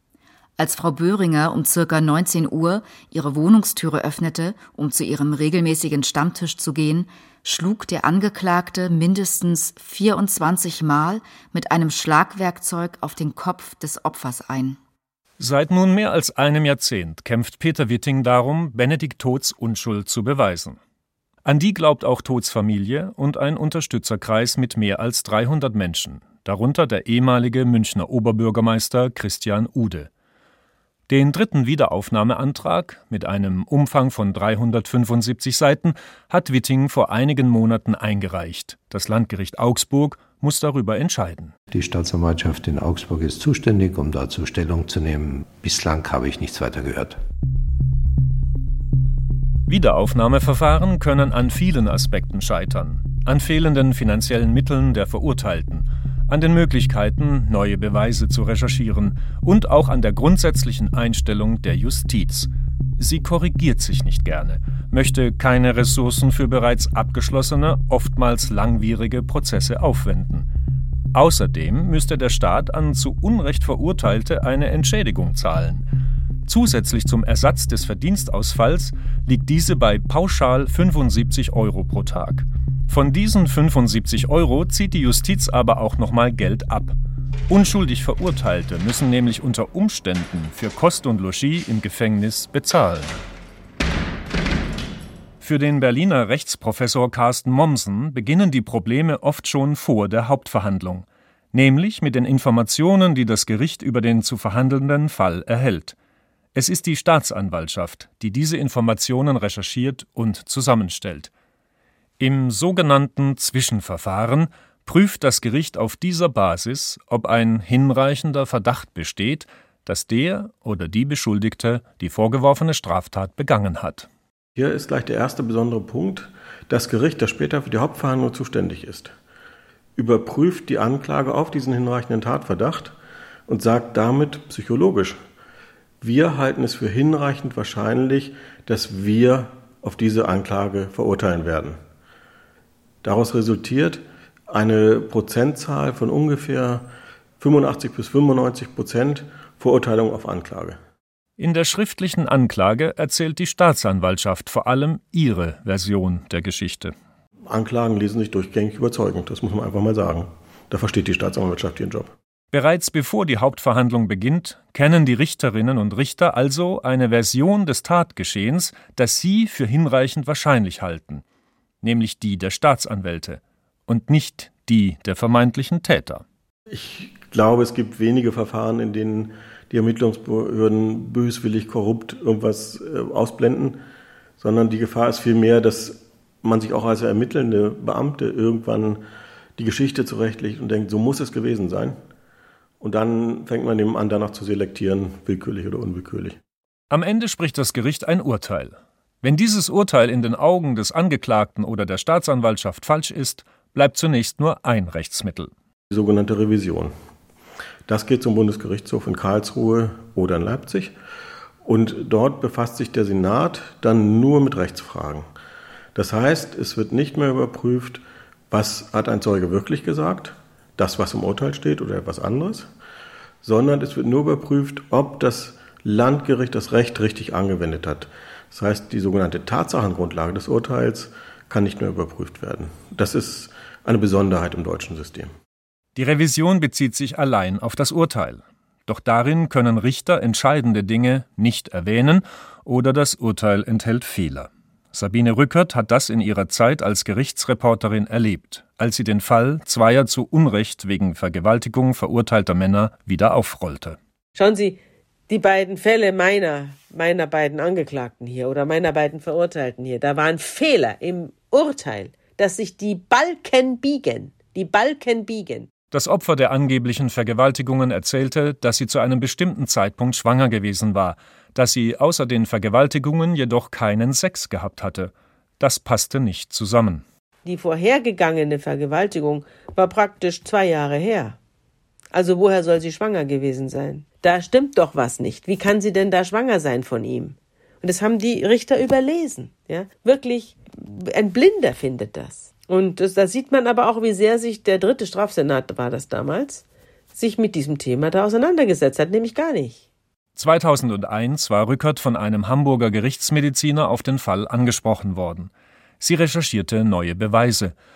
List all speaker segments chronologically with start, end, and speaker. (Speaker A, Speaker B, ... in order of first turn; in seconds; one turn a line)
Speaker A: 0.6-14.8
Speaker B: 15.4-20.8
Speaker B: 21.4-30.1
Speaker B: 31.1-41.5
Speaker C: 41.7-47.2
Speaker B: 49.7-70.5
Speaker B: 71.1-75.9
Speaker B: 76.5-87.0
Speaker B: 87.5-93.2
Speaker B: 95.4-106.0
Speaker B: 106.5-111.3
Speaker B: 112.2-124.1
Speaker D: 124.6-129.1
Speaker D: 130.0-132.9
Speaker D: 133.5-135.2
Speaker D: 136.0-141.8
Speaker D: 143.0-146.9
Speaker D: 147.4-150.8
Speaker B: 151.4-156.9
Speaker D: 157.5-162.1
Speaker B: 162.5-171.2
Speaker B: 171.8-176.2
Speaker D: 176.7-183.8
Speaker D: 184.4-189.0
Speaker D: 189.6-192.0
Speaker D: 192.8-196.4
Speaker B: 196.9-205.5
Speaker D: 205.9-206.9
Speaker D: 207.9-210.9
Speaker D: 211.7-215.3
Speaker D: 215.9-222.7
Speaker D: 223.4-235.3
Speaker B: 235.9-254.0
Speaker E: 254.4-265.7
Speaker B: 265.9-277.1
Speaker E: 277.4-281.4
Speaker E: 282.1-296.6
Speaker E: 297.1-299.8
Speaker B: 300.4-307.8